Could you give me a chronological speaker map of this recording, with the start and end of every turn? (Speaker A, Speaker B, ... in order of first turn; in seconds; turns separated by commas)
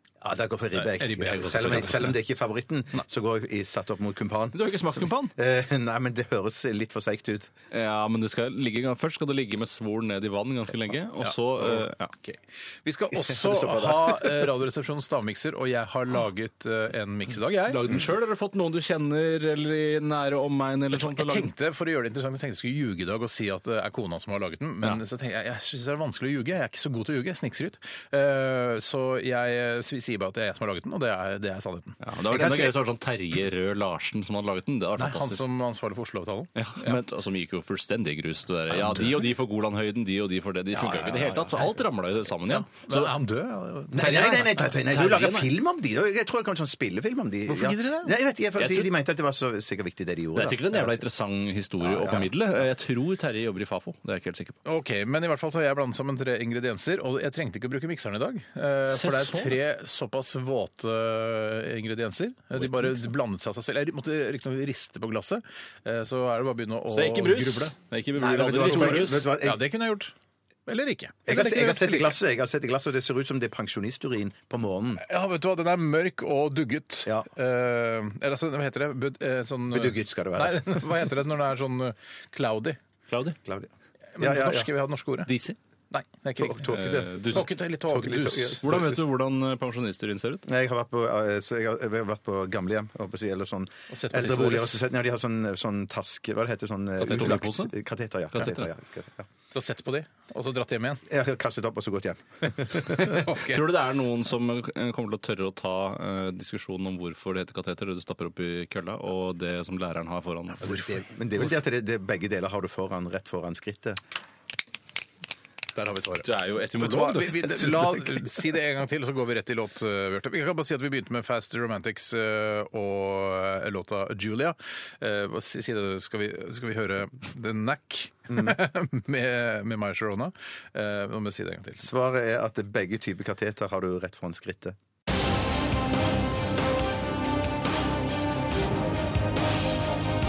Speaker A: 0.2-7.5, Speaker B: 0.8-2.0, Speaker C: 1.2-2.2, Speaker C: 4.5-5.3, Speaker C: 7.7-12.1, Speaker B: 11.2-17.9, Speaker C: 13.3-14.2, Speaker C: 17.7-21.5, Speaker B: 20.9-32.0, Speaker C: 32.0-35.5, Speaker A: 32.3-32.8, Speaker B: 35.0-37.0, Speaker C: 36.6-43.1, Speaker A: 40.7-41.8, Speaker B: 42.5-44.7, Speaker A: 43.9-51.0, Speaker C: 44.9-45.5, Speaker B: 47.5-48.1, Speaker C: 48.6-48.9, Speaker C: 50.4-54.6, Speaker A: 51.8-52.6, Speaker B: 54.6-67.7, Speaker C: 58.9-59.6, Speaker C: 62.6-63.1, Speaker C: 66.9-69.3, Speaker A: 68.2-69.6, Speaker B: 68.5-70.1, Speaker B: 70.7-72.2, Speaker A: 71.3-75.0, Speaker B: 75.0-82.8, Speaker A: 79.7-80.9, Speaker C: 83.1-83.4, Speaker A: 83.4-84.7, Speaker B: 84.2-85.3, Speaker C: 85.3-85.6, Speaker B: 85.9-86.7, Speaker A: 86.4-89.0, Speaker C: 86.7-87.5, Speaker B: 87.2-88.7, Speaker C: 88.6-90.4, Speaker A: 90.5-99.3, Speaker B: 93.9-94.8, Speaker C: 97.0-97.8, Speaker C: 98.3-98.7, Speaker B: 99.5-101.0, Speaker A: 101.1-103.1, Speaker B: 103.0-103.6, Speaker C: 103.0-111.0, Speaker A: 110.6-114.0, Speaker B: 115.8-116.2, Speaker C: 116.2-118.0, Speaker B: 116.8-131.8, Speaker A: 131.8-134.8